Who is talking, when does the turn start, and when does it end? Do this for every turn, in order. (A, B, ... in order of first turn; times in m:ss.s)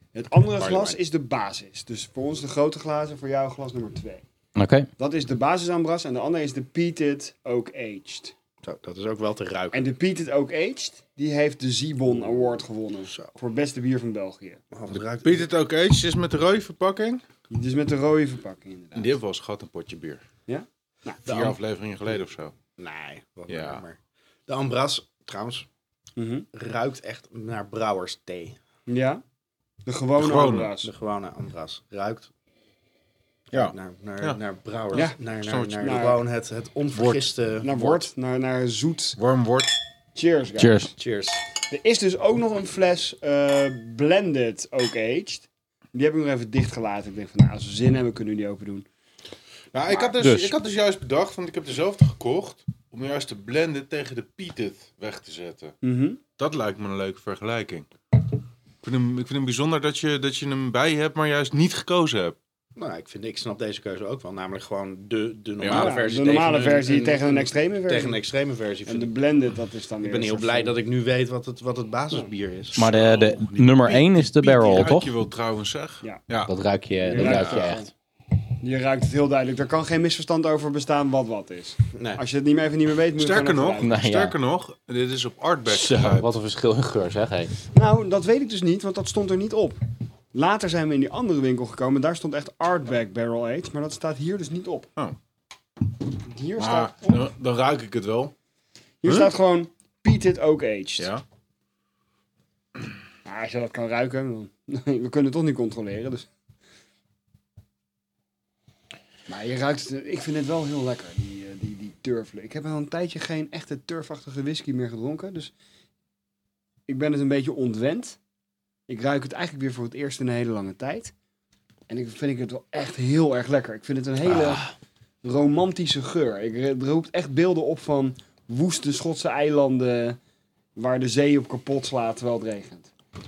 0:00.1-0:04.2 A
0:00.6-0:01.0 B
0:04.6-0:04.9 C
0:05.0-0:08.3 A
0:08.6-0:09.9 B
0:09.7-0:14.6 A
0:14.7-0:15.5 B
0:15.2-0:17.2 D
0:17.5-0:19.1 A
0:19.0-0:20.2 D
0:20.5-0:21.6 A
0:21.3-0:22.5 D
0:22.8-0:25.7 B
0:23.5-0:23.8 D
0:26.2-0:26.5 A
0:26.5-0:28.6 B
0:28.9-0:29.2 A
0:29.8-0:30.9 A
0:30.2-0:30.7 D
0:30.8-0:32.3 B
0:33.5-0:38.1 B
0:33.5-0:34.4 D
0:34.9-0:36.0 D
0:35.8-0:36.2 A
0:37.0-0:37.3 D
0:37.6-0:39.2 A
0:39.2-0:39.7 D
0:40.2-0:40.9 A
0:40.6-0:40.9 C
0:41.0-0:41.4 B
0:41.7-0:48.9 A
0:49.7-0:55.8 D
0:49.9-0:50.1 A
0:50.2-0:50.6 C
0:55.8-0:56.2 A
0:56.4-0:57.9 D
0:58.8-1:02.4 D
1:02.8-1:09.1 B
1:05.6-1:07.1 D
1:05.7-1:08.2 A
1:08.9-1:10.7 A
1:10.0-1:12.8 B
1:12.8-1:16.5 D
1:12.8-1:15.1 C
1:16.5-1:17.9 C
1:17.1-1:17.9 A
1:17.2-1:17.7 D
1:18.6-1:23.9 A
1:21.9-1:22.2 B
1:23.2-1:26.3 D
1:23.8-1:24.4 C
1:25.7-1:27.5 C
1:27.7-1:29.8 A
1:30.3-1:34.9 A
1:36.2-1:37.3 A
1:36.6-1:38.3 D
1:39.0-1:41.1 A
1:39.0-1:39.3 D
1:41.0-1:41.2 D
1:43.2-1:46.3 A
1:49.3-1:55.5 A
1:56.9-1:58.2 A
1:58.9-2:01.1 A
2:01.9-2:04.7 A
2:05.2-2:10.2 A
2:10.8-2:12.9 A